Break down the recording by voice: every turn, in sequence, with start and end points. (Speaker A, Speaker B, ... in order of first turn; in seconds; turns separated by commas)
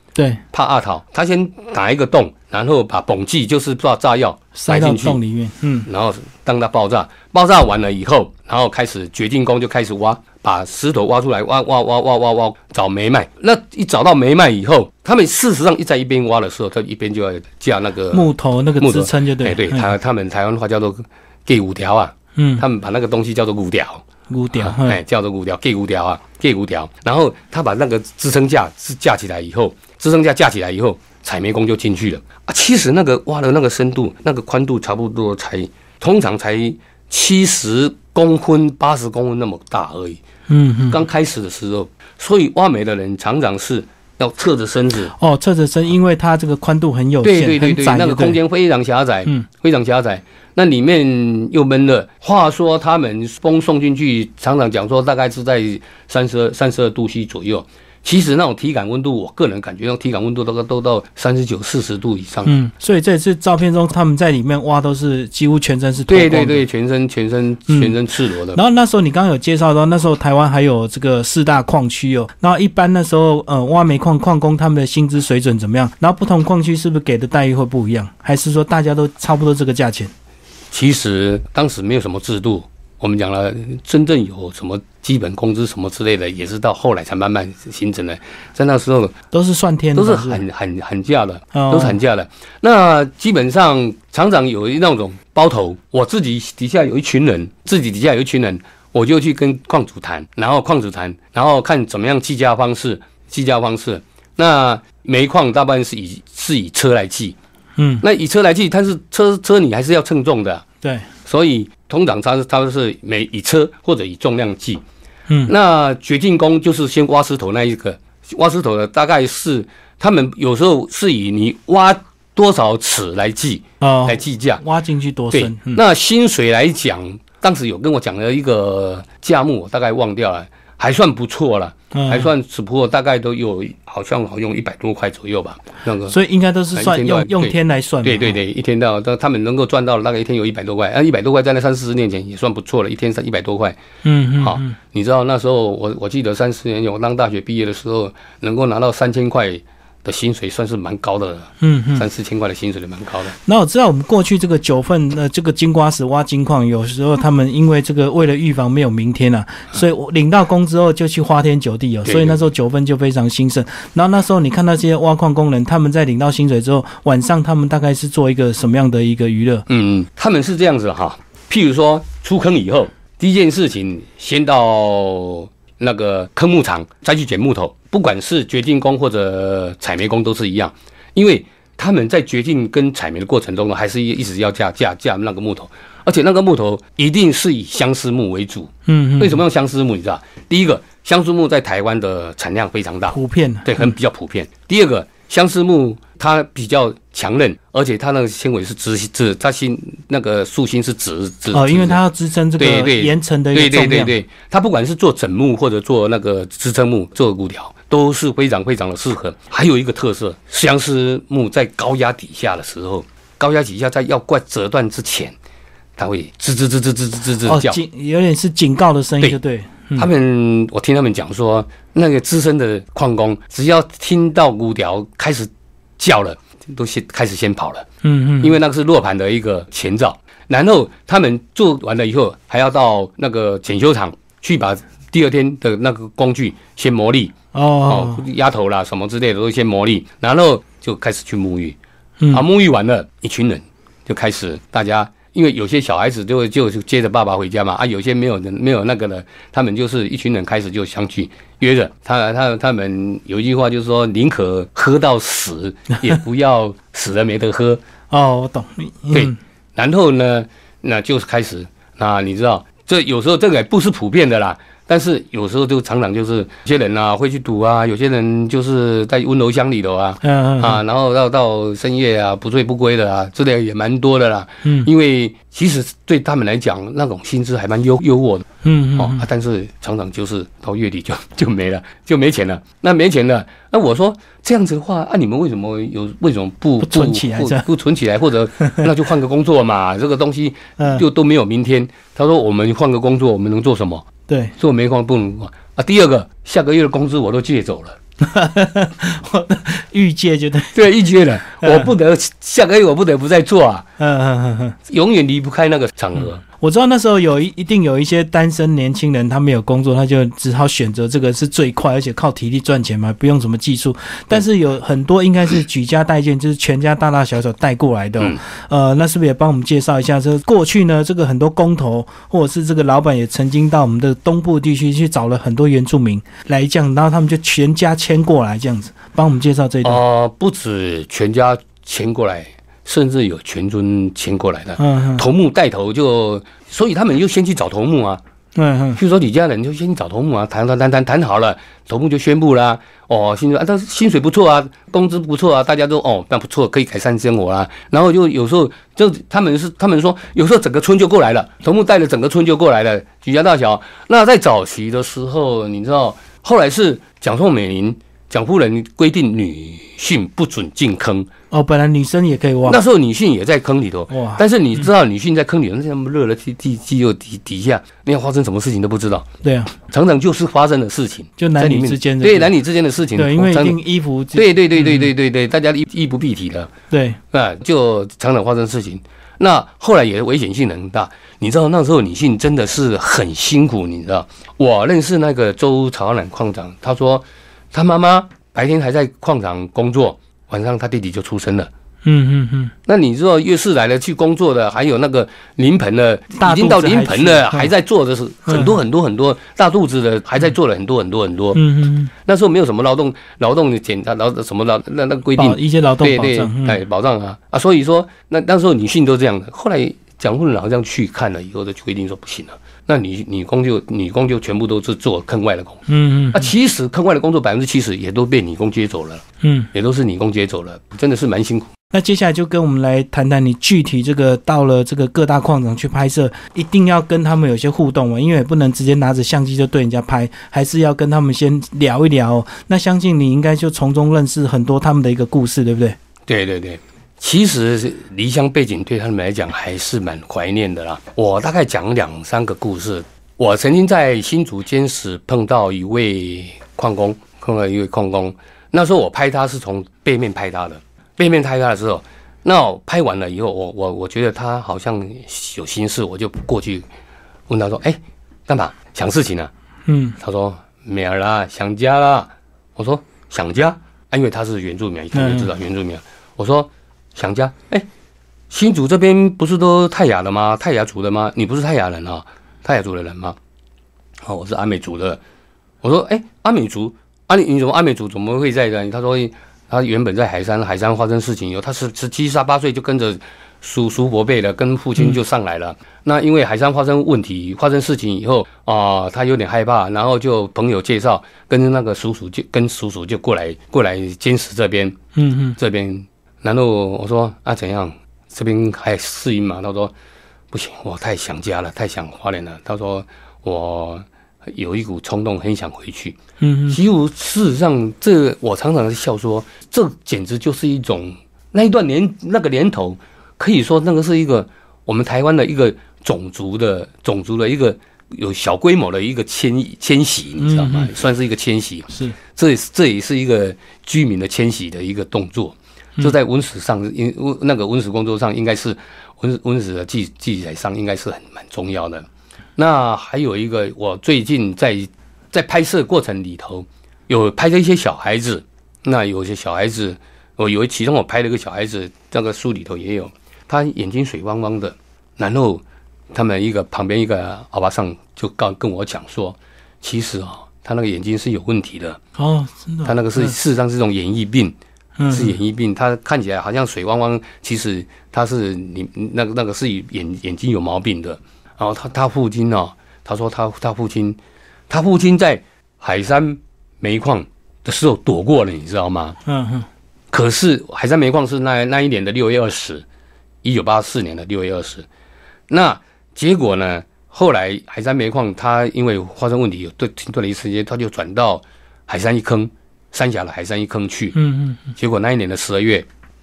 Speaker A: 0.1-0.4, Speaker B: 0.5-5.2, Speaker A: 4.5-5.9, Speaker B: 5.9-18.3, Speaker A: 18.1-19.9, Speaker B: 18.8-24.0, Speaker A: 22.4-22.6, Speaker A: 24.3-25.0, Speaker B: 24.6-40.2, Speaker A: 40.5-41.0, Speaker B: 40.9-45.1, Speaker A: 45.1-48.4, Speaker B: 47.2-62.5, Speaker A: 62.5-66.6, Speaker B: 66.1-68.6, Speaker A: 67.7-68.0, Speaker A: 68.5-80.1, Speaker B: 80.7-89.2, Speaker A: 89.3-90.4, Speaker B: 90.0-107.4, Speaker A: 91.5-92.0, Speaker A: 107.8-108.0, Speaker B: 108.0-110.7, Speaker B: 111.3-114.8, Speaker B: 115.5-124.6, Speaker A: 123.8-125.8, Speaker B: 125.3-136.2, Speaker A: 131.9-132.3, Speaker A: 136.1-138.4, Speaker B: 136.8-143.8, Speaker A: 144.0-144.8, Speaker B: 144.4-153.4, Speaker A: 151.6-152.1, Speaker A: 153.4-169.7, Speaker B: 162.1-162.4, Speaker B: 169.7-202.0, Speaker A: 188.9-189.4, Speaker A: 193.1-193.9, Speaker A: 201.5-204.1, Speaker B: 202.6-215.3, Speaker B: 216.0-217.8, Speaker A: 217.4-220.1, Speaker B: 220.0-227.9, Speaker A: 228.0-228.6, Speaker B: 228.4-237.3, Speaker A: 237.5-238.2, Speaker B: 237.9-241.8, Speaker B: 242.3-257.8, Speaker A: 258.1-259.4, Speaker B: 259.1-294.1, Speaker A: 270.2-270.8, Speaker A: 274.6-274.9, Speaker A: 278.6-279.2, Speaker A: 286.8-287.7, Speaker A: 288.6-288.9, Speaker A: 290.8-291.0, Speaker A: 294.3-294.5, Speaker B: 294.6-298.0, Speaker A: 298.2-300.8, Speaker B: 300.7-303.9, Speaker A: 301.6-301.9, Speaker A: 304.0-304.8, Speaker B: 304.9-306.4, Speaker A: 306.6-330.0, Speaker B: 329.8-338.2, Speaker A: 334.8-335.3, Speaker A: 338.6-339.0, Speaker B: 339.0-361.3, Speaker A: 361.5-362.8, Speaker B: 362.6-373.8, Speaker A: 364.1-364.4, Speaker A: 369.4-369.7, Speaker A: 371.4-372.5, Speaker A: 373.1-375.1, Speaker B: 374.3-376.7, Speaker A: 376.9-377.2, Speaker B: 377.3-391.7, Speaker A: 392.1-392.7, Speaker B: 392.9-401.6, Speaker A: 396.4-397.7, Speaker A: 398.5-398.8, Speaker A: 401.6-402.1, Speaker B: 402.2-421.7, Speaker A: 405.3-406.8, Speaker A: 415.9-416.5, Speaker A: 419.4-419.7, Speaker A: 421.9-436.0, Speaker B: 436.3-456.9, Speaker B: 457.5-459.5, Speaker A: 459.9-460.2, Speaker B: 460.2-467.9, Speaker A: 465.1-465.5, Speaker B: 468.5-473.4, Speaker B: 474.2-475.2, Speaker B: 475.8-495.0, Speaker A: 495.1-495.6, Speaker B: 495.6-499.9, Speaker B: 500.5-506.2, Speaker A: 506.4-506.8, Speaker B: 506.7-552.0, Speaker A: 520.4-520.9, Speaker A: 521.9-522.2, Speaker A: 552.2-553.4, Speaker B: 552.9-554.5, Speaker A: 555.0-555.4, Speaker B: 555.1-564.2, Speaker B: 564.7-569.2, Speaker A: 569.3-569.7, Speaker B: 570.1-572.9, Speaker B: 573.4-574.9, Speaker B: 575.5-584.1, Speaker A: 584.1-584.7, Speaker B: 584.8-585.9